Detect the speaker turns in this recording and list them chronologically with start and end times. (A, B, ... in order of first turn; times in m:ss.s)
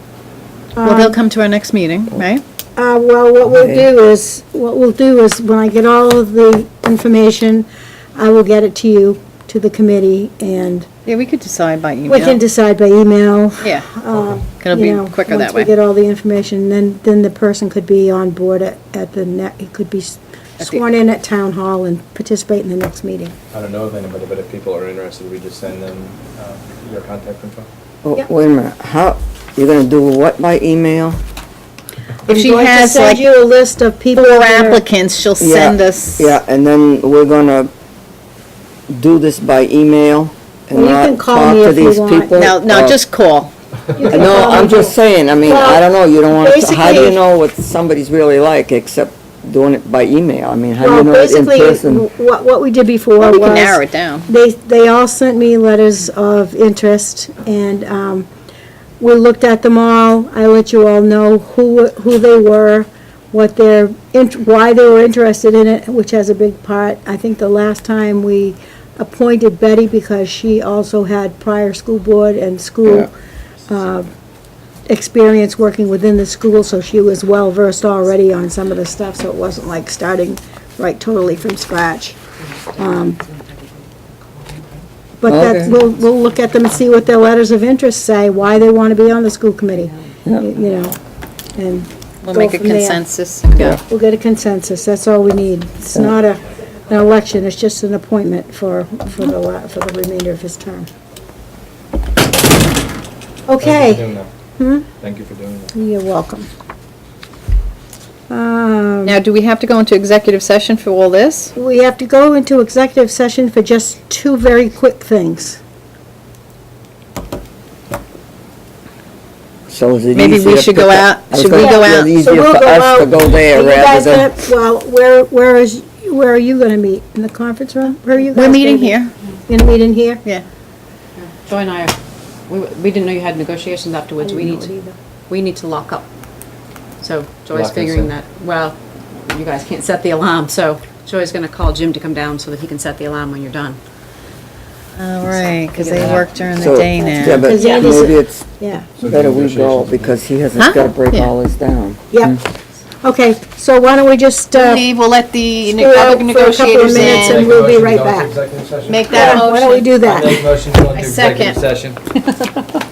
0:00.8-0:01.2 A
0:00.8-0:02.4 B
0:02.8-0:10.9 A
0:11.1-0:12.4 B
0:12.1-0:23.4 A
0:13.6-0:13.9 B
0:14.1-0:14.4 C
0:14.6-0:15.7 B
0:23.5-0:27.7 C
0:28.0-0:31.2 D
0:32.3-0:33.2 B
0:32.3-0:34.8 A
0:34.1-0:36.4 B
0:35.4-0:37.7 D
0:38.9-0:43.0 D
0:40.7-0:42.4 A
0:42.4-0:43.5 B
0:44.0-0:47.2 A
0:44.1-0:52.1 D
0:50.8-0:58.3 A
0:53.2-0:54.3 B
0:59.0-1:13.1 A
1:13.7-1:14.1 A
1:14.9-1:22.2 A
1:22.7-1:23.2 A
1:25.2-1:31.0 A
1:25.3-1:25.8 D
1:31.6-1:33.0 A
1:32.2-1:33.8 B
1:33.8-1:40.9 A
1:43.5-1:44.0 A
1:43.6-1:44.3 C
1:44.6-1:44.9 A
1:45.0-1:45.7 C
1:45.7-1:46.5 A
1:48.3-1:49.2 A
1:49.1-1:51.5 B
1:51.6-1:55.6 A
1:59.7-2:04.4 D
2:00.1-2:02.1 B
2:01.6-2:10.2 A
2:08.3-2:09.1 B
2:11.2-2:12.0 E
2:12.5-2:14.7 E
2:14.2-2:15.0 A
2:15.3-2:16.1 E
2:17.0-2:23.8 E
2:17.5-2:18.1 C
2:25.0-2:27.5 B
2:25.3-2:26.8 E
2:25.9-2:26.3 C
2:26.5-2:28.5 D
2:27.0-2:28.9 A
2:29.0-2:30.2 C
2:29.0-2:32.4 D
2:30.6-2:31.3 B
2:32.1-2:32.4 A
2:33.0-2:34.9 A
2:34.5-2:37.5 B
2:35.7-2:38.3 A
2:36.8-2:39.4 C
2:38.9-2:39.9 B
2:39.1-2:40.5 A
2:40.0-2:42.0 C
2:40.9-2:41.6 B